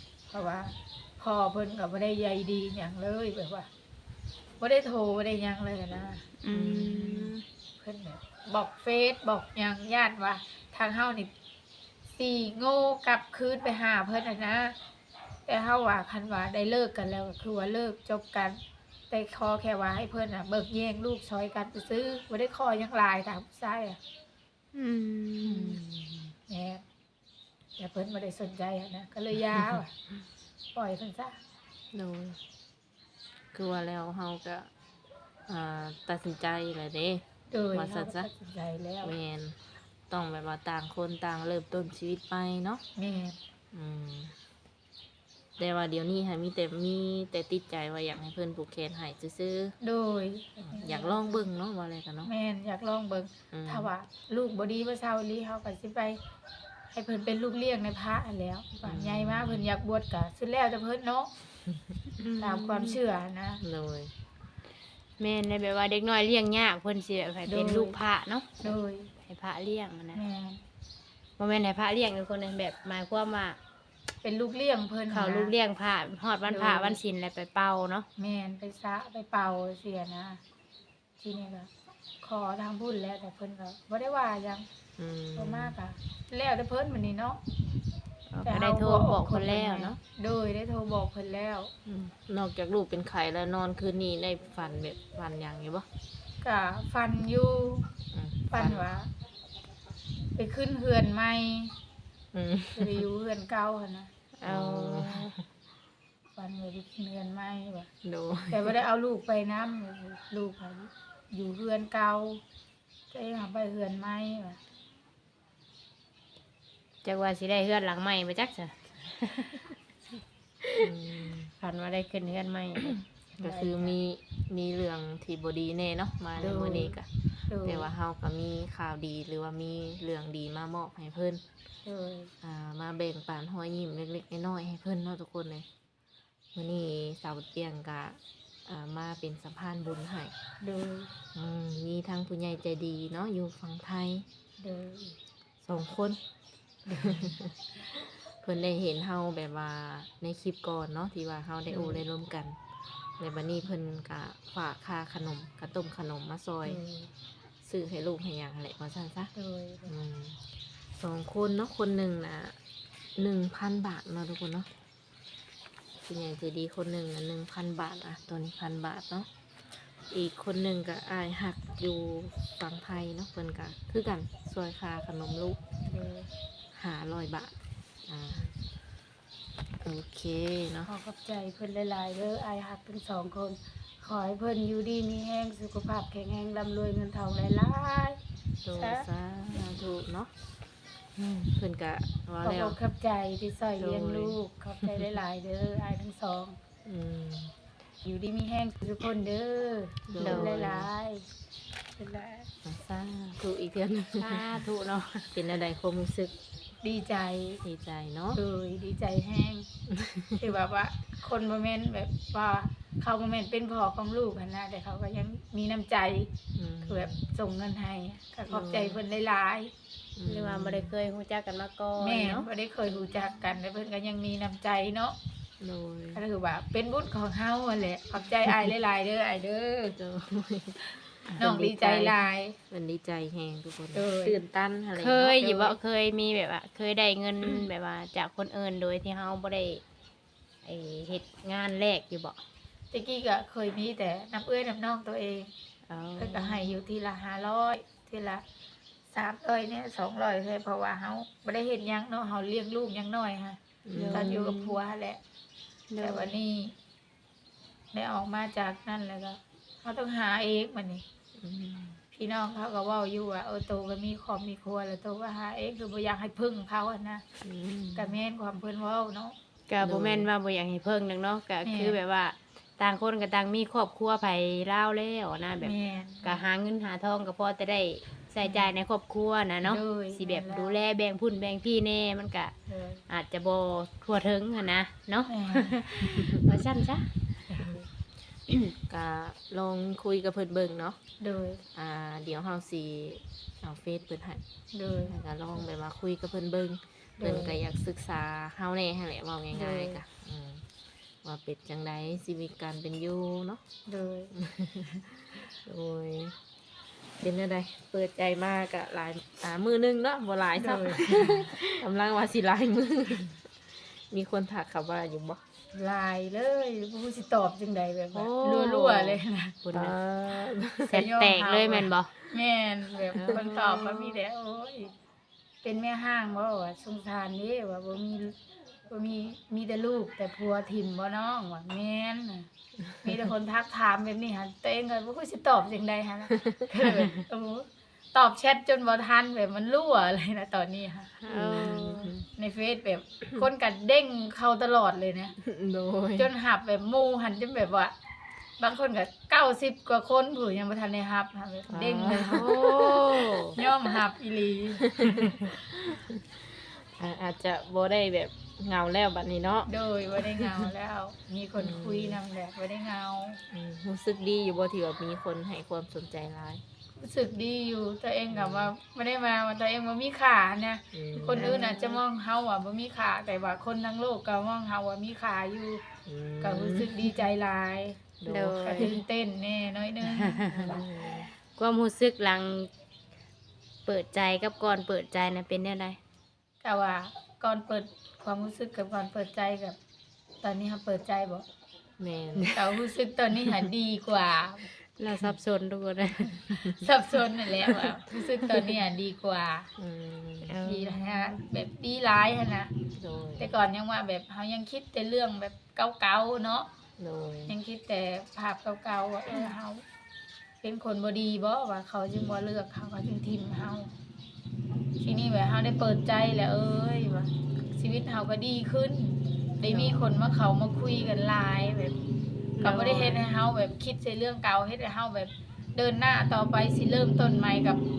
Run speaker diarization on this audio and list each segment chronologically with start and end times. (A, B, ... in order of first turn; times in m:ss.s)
0:00.3-0:03.7 A
0:04.6-0:06.3 A
0:06.4-0:07.4 B
0:06.5-0:07.4 C
0:07.8-0:11.3 A
0:12.1-0:14.8 A
0:15.4-0:24.0 A
0:24.7-0:25.8 B
0:25.4-0:25.8 A
0:25.9-0:26.3 C
0:26.5-0:26.8 A
0:27.8-0:29.9 A
0:30.7-0:31.4 A
0:31.9-0:32.4 C
0:33.5-0:34.7 C
0:35.5-0:38.3 C
0:37.5-0:39.1 A
0:39.0-0:42.8 C
0:43.0-0:43.4 A
0:43.7-0:44.3 C
0:45.6-0:49.7 C
0:49.8-0:51.4 A
0:50.6-0:52.3 C
0:52.2-0:56.2 A
0:53.5-0:53.9 C
0:56.9-1:01.3 A
0:58.8-0:59.7 C
1:02.2-1:03.0 B
1:02.4-1:03.6 A
1:03.6-1:04.1 C
1:05.2-1:08.5 B
1:07.5-1:08.0 A
1:08.6-1:09.1 A
1:09.2-1:10.2 B
1:10.1-1:10.6 A
1:11.4-1:13.6 B
1:14.2-1:15.5 A
1:15.1-1:18.1 B
1:16.5-1:17.0 A
1:18.2-1:20.4 A
1:21.2-1:21.7 A
1:22.2-1:24.7 A
1:25.0-1:25.7 C
1:25.3-1:27.4 A
1:28.3-1:30.0 B
1:28.4-1:31.7 A
1:31.8-1:35.8 C
1:36.4-1:37.9 A
1:38.1-1:38.9 C
1:38.5-1:39.1 A
1:40.3-1:41.7 A
1:42.3-1:43.0 C
1:42.7-1:44.1 A
1:44.4-1:45.3 B
1:44.4-1:45.4 C
1:46.4-1:47.9 A
1:48.0-1:48.8 C
1:48.5-1:52.4 A
1:53.1-1:54.6 A
1:57.0-1:59.7 B
2:00.8-2:01.5 C
2:01.6-2:03.0 B
2:02.9-2:11.4 C
2:03.4-2:04.0 A
2:06.4-2:06.9 B
2:07.5-2:07.9 A
2:11.8-2:12.3 A
2:12.4-2:15.6 C
2:16.5-2:20.3 C
2:20.6-2:21.1 A
2:21.3-2:24.2 C
2:24.6-2:25.2 A
2:25.6-2:26.2 C
2:26.8-2:27.4 A
2:27.0-2:27.5 C
2:28.2-2:32.6 C
2:31.7-2:32.0 A
2:33.2-2:36.8 C
2:36.6-2:37.1 A
2:37.6-2:39.3 C
2:39.3-2:39.9 A
2:39.9-2:40.4 C
2:41.0-2:42.6 C
2:43.2-2:44.7 C
2:46.0-2:49.3 C
2:49.8-2:55.6 C
2:55.8-2:56.3 A
2:56.7-2:57.5 C
2:58.1-2:58.5 C
2:59.8-3:00.9 C
3:00.8-3:08.2 A
3:08.6-3:10.3 C
3:08.7-3:09.1 A
3:11.2-3:11.5 B
3:11.5-3:12.8 C
3:12.4-3:16.6 A
3:13.8-3:15.1 C
3:16.8-3:17.5 C
3:18.0-3:21.3 A
3:20.1-3:20.9 C
3:20.2-3:20.6 B
3:22.0-3:22.5 A
3:22.6-3:24.4 C
3:24.2-3:25.3 B
3:25.3-3:26.3 C
3:26.8-3:27.6 A
3:27.6-3:28.4 C
3:28.3-3:29.7 A
3:29.9-3:30.4 C
3:30.4-3:36.3 A
3:36.6-3:37.3 C
3:36.8-3:39.7 A
3:38.5-3:39.0 C
3:40.2-3:40.9 C
3:40.2-3:42.5 B
3:42.0-3:45.2 A
3:45.6-3:46.2 C
3:46.1-3:50.0 A
3:50.0-3:52.2 C
3:51.4-3:52.6 A
3:52.7-3:55.8 C
3:53.9-3:54.4 A
3:54.9-3:59.8 B
4:00.6-4:02.4 B
4:02.9-4:05.5 A
4:05.9-4:06.7 B
4:06.2-4:08.4 A
4:09.1-4:13.6 A
4:13.8-4:14.4 C
4:13.9-4:14.8 B
4:14.1-4:15.2 A
4:15.9-4:16.3 B
4:16.0-4:16.7 A
4:17.9-4:21.0 A
4:21.4-4:22.0 C
4:22.1-4:27.2 A
4:27.4-4:28.2 C
4:27.9-4:29.3 A
4:29.7-4:42.5 B
4:29.8-4:30.3 C
4:31.6-4:32.0 A
4:35.6-4:36.4 A
4:39.6-4:40.8 A
4:42.7-4:43.0 A
4:43.1-4:47.1 B
4:45.3-4:45.8 A
4:47.5-4:47.8 A
4:48.5-4:48.7 B
4:48.9-4:51.0 C
4:51.2-4:51.6 A
4:51.7-4:54.4 C
4:54.7-4:55.1 A
4:55.1-5:00.6 C
4:57.2-4:57.6 A
4:59.5-5:00.0 A
5:01.2-5:03.6 C
5:03.9-5:04.3 A
5:04.4-5:06.4 C
5:07.2-5:15.4 C
5:10.6-5:11.5 A
5:15.7-5:19.6 A
5:18.1-5:19.1 B
5:19.6-5:20.0 B
5:19.7-5:21.0 C
5:20.8-5:22.1 B
5:20.9-5:24.9 A
5:23.1-5:23.5 C
5:23.2-5:24.0 B
5:25.6-5:28.4 A
5:28.9-5:32.5 A
5:33.0-5:41.2 A
5:41.2-5:42.1 B
5:41.3-5:42.3 C
5:42.4-5:45.4 A
5:45.4-5:46.3 C
5:46.1-5:47.9 A
5:48.6-5:55.1 A
5:51.7-5:54.0 C
5:54.9-6:00.7 C
5:59.6-6:03.4 A
6:01.6-6:02.2 C
6:03.5-6:06.6 C
6:07.0-6:15.8 A
6:08.3-6:08.7 C
6:10.9-6:11.6 C
6:11.3-6:12.0 B
6:16.0-6:17.1 C
6:16.4-6:18.0 A
6:18.2-6:18.9 C
6:18.3-6:19.0 B
6:18.6-6:20.8 A
6:20.0-6:20.8 B
6:20.5-6:21.3 C
6:21.4-6:22.7 B
6:23.8-6:26.0 B
6:26.6-6:29.8 A
6:30.4-6:31.4 A
6:32.0-6:32.5 C
6:32.3-6:32.8 B
6:32.5-6:34.7 A
6:35.0-6:36.8 B
6:36.5-6:39.7 A
6:39.8-6:40.6 C
6:40.4-6:41.2 B
6:40.6-6:42.7 A
6:42.9-6:43.5 C
6:43.4-6:46.7 A
6:47.0-6:47.5 C
6:47.5-6:49.8 A
6:50.6-6:53.9 A
6:55.0-7:01.9 A
6:59.7-7:00.0 C
7:02.6-7:03.2 B
7:02.6-7:07.8 A